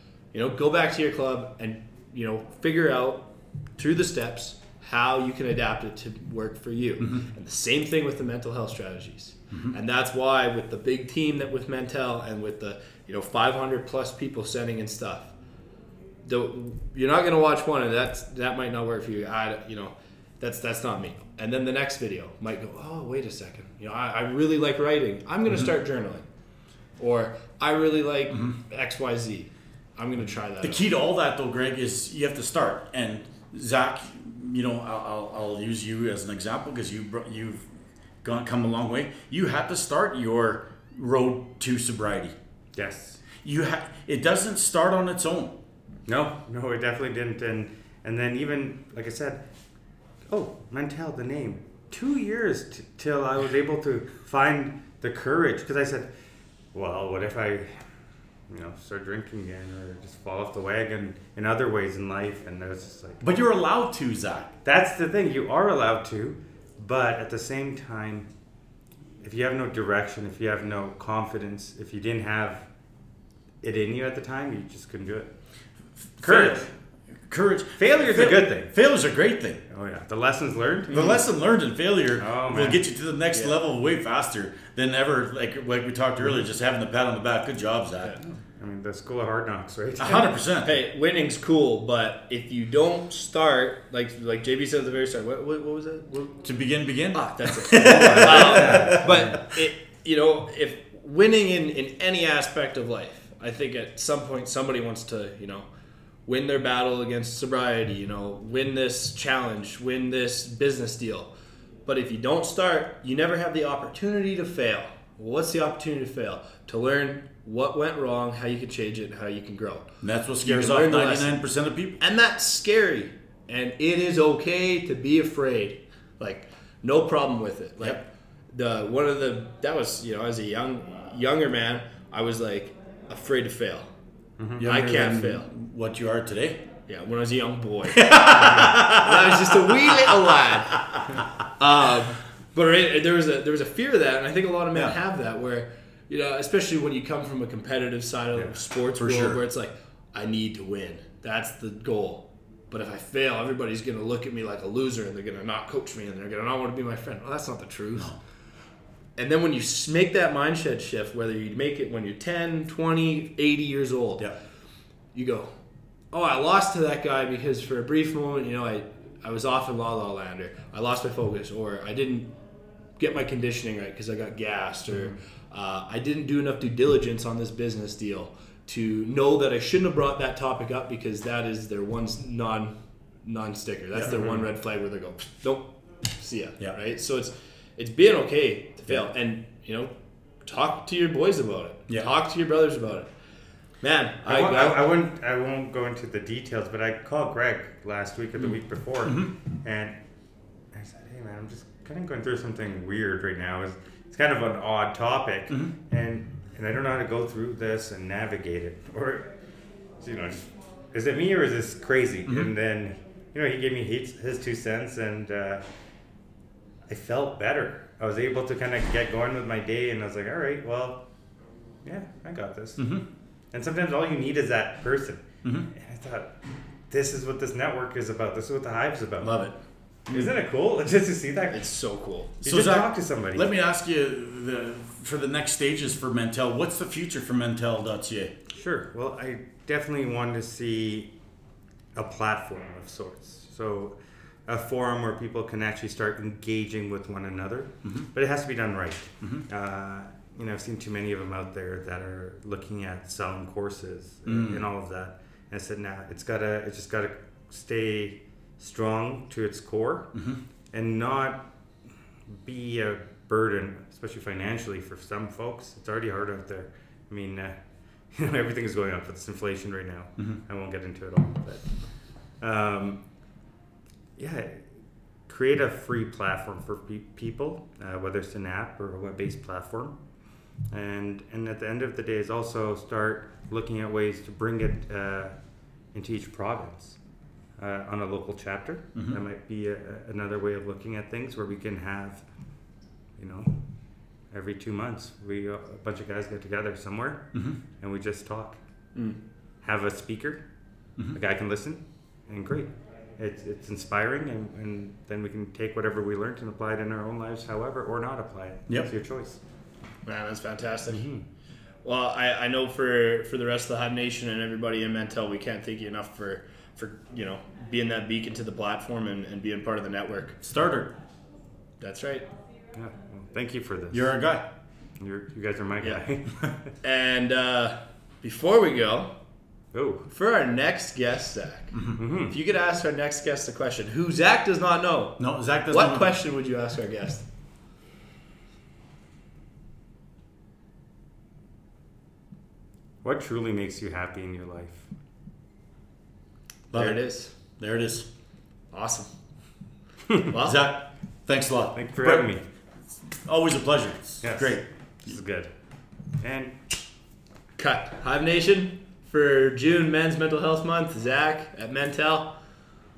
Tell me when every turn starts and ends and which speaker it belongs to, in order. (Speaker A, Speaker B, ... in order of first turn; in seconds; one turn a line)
Speaker A: 0.3-15.3
Speaker A: 16.2-26.2
Speaker A: 27.0-30.9
Speaker B: 30.6-37.7
Speaker B: 38.2-42.4
Speaker C: 42.8-43.2
Speaker B: 43.4-45.5
Speaker C: 46.1-49.4
Speaker C: 50.3-56.1
Speaker C: 56.7-57.9
Speaker C: 58.5-63.2
Speaker B: 63.2-64.5
Speaker C: 64.6-68.3
Speaker C: 69.2-72.7
Speaker C: 73.6-75.3
Speaker B: 76.2-76.7
Speaker C: 76.2-76.7
Speaker B: 77.3-79.6
Speaker C: 77.8-78.7
Speaker C: 79.7-81.2
Speaker B: 80.9-88.2
Speaker A: 80.9-81.2
Speaker C: 82.2-82.8
Speaker C: 88.2-90.3
Speaker B: 90.0-90.8
Speaker A: 90.6-96.4
Speaker B: 96.4-99.4
Speaker A: 97.1-105.7
Speaker C: 97.8-99.4
Speaker A: 106.3-111.3
Speaker A: 111.9-119.9
Speaker B: 120.0-122.0
Speaker A: 120.4-121.4
Speaker A: 122.0-133.9
Speaker C: 134.4-134.7
Speaker B: 134.6-136.6
Speaker A: 134.6-135.5
Speaker A: 136.9-158.1
Speaker B: 137.9-140.2
Speaker C: 138.4-138.9
Speaker B: 140.8-141.1
Speaker B: 149.0-149.4
Speaker A: 159.2-164.3
Speaker A: 165.1-165.5
Speaker A: 166.1-172.3
Speaker A: 173.0-189.9
Speaker A: 190.4-193.1
Speaker A: 193.8-194.8
Speaker C: 194.2-200.0
Speaker B: 199.1-199.3
Speaker C: 200.7-209.3
Speaker C: 210.0-215.6
Speaker B: 212.3-212.5
Speaker C: 216.9-221.1
Speaker C: 221.8-222.8
Speaker B: 222.8-223.0
Speaker C: 223.5-226.3
Speaker C: 226.9-229.3
Speaker B: 229.2-229.5
Speaker C: 230.1-231.6
Speaker A: 231.5-232.3
Speaker C: 232.4-233.5
Speaker B: 232.4-238.3
Speaker C: 238.5-241.1
Speaker C: 241.9-244.0
Speaker C: 244.5-260.1
Speaker B: 254.3-254.6
Speaker B: 260.1-260.4
Speaker C: 260.7-261.5
Speaker C: 262.3-267.6
Speaker C: 268.1-273.0
Speaker C: 274.2-274.6
Speaker C: 275.3-280.0
Speaker C: 280.7-285.3
Speaker C: 285.9-287.0
Speaker C: 287.6-292.3
Speaker C: 293.2-293.6
Speaker C: 294.3-298.6
Speaker C: 299.6-300.4
Speaker C: 301.1-309.4
Speaker A: 310.1-311.1
Speaker C: 310.9-311.2
Speaker A: 311.8-320.4
Speaker B: 320.4-320.9
Speaker A: 321.8-322.3
Speaker C: 322.7-324.1
Speaker B: 323.9-324.4
Speaker C: 325.0-326.7
Speaker A: 326.8-329.1
Speaker C: 329.7-330.1
Speaker A: 330.1-337.2
Speaker B: 331.7-332.0
Speaker C: 332.0-332.4
Speaker B: 335.2-336.1
Speaker C: 343.0-344.9
Speaker B: 346.7-348.1
Speaker A: 346.7-347.3
Speaker A: 348.7-349.1
Speaker A: 350.3-350.6
Speaker B: 350.4-352.3
Speaker C: 351.7-352.4
Speaker B: 353.2-354.6
Speaker C: 354.2-355.5
Speaker C: 356.2-356.6
Speaker A: 357.6-362.4